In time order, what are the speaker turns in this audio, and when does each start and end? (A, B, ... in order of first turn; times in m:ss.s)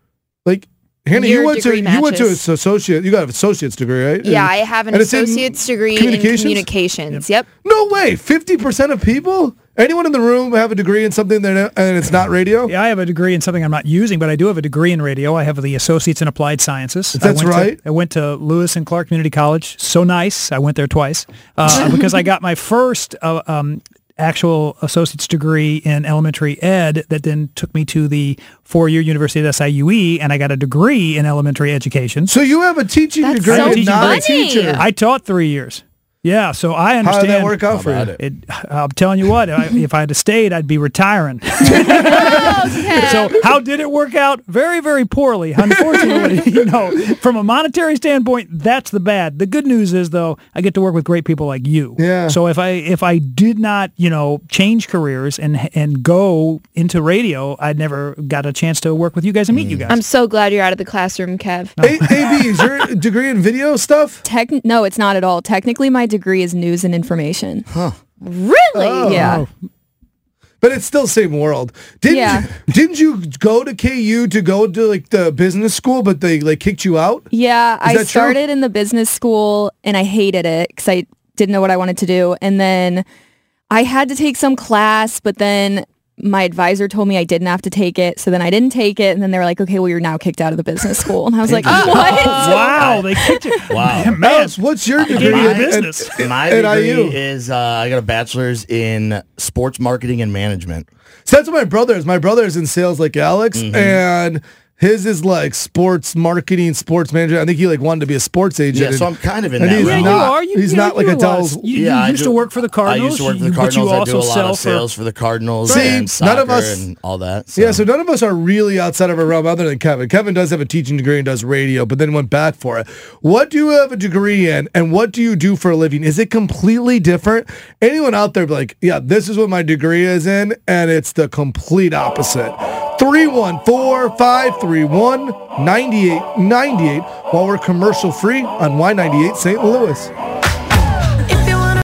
0:00.4-0:06.7 A
0:01.1-0:02.4 B
0:04.2-0:07.5 B
0:07.6-0:12.7 A
0:12.7-0:32.4 C
0:17.2-0:17.8 A
0:32.3-0:34.9 A
0:33.2-0:34.8 B
0:33.4-1:00.0 C
0:37.0-0:38.1 A
0:37.7-0:38.2 D
0:42.2-0:43.4 B
0:52.0-0:52.4 A
0:59.5-0:59.9 D
0:59.9-1:01.7 B
1:01.8-1:02.6 C
1:01.8-1:04.2 A
1:04.2-1:07.7 E
1:08.2-1:09.2 B
1:08.7-1:09.4 A
1:09.1-1:09.4 E
1:09.1-1:09.5 C
1:10.6-1:17.3 A
1:12.1-1:12.5 E
1:17.3-1:23.0 E
1:17.8-1:18.4 A
1:23.7-1:33.3 E
1:31.5-1:33.1 D
1:31.7-1:36.3 C
1:33.7-1:34.2 D
1:34.2-1:37.2 A
1:35.0-1:40.9 D
1:41.3-1:51.7 A
1:43.6-1:44.0 D
1:48.7-1:50.4 D
1:49.7-1:54.9 C
1:51.7-1:57.9 D
1:55.7-1:56.9 A
1:57.6-2:20.1 A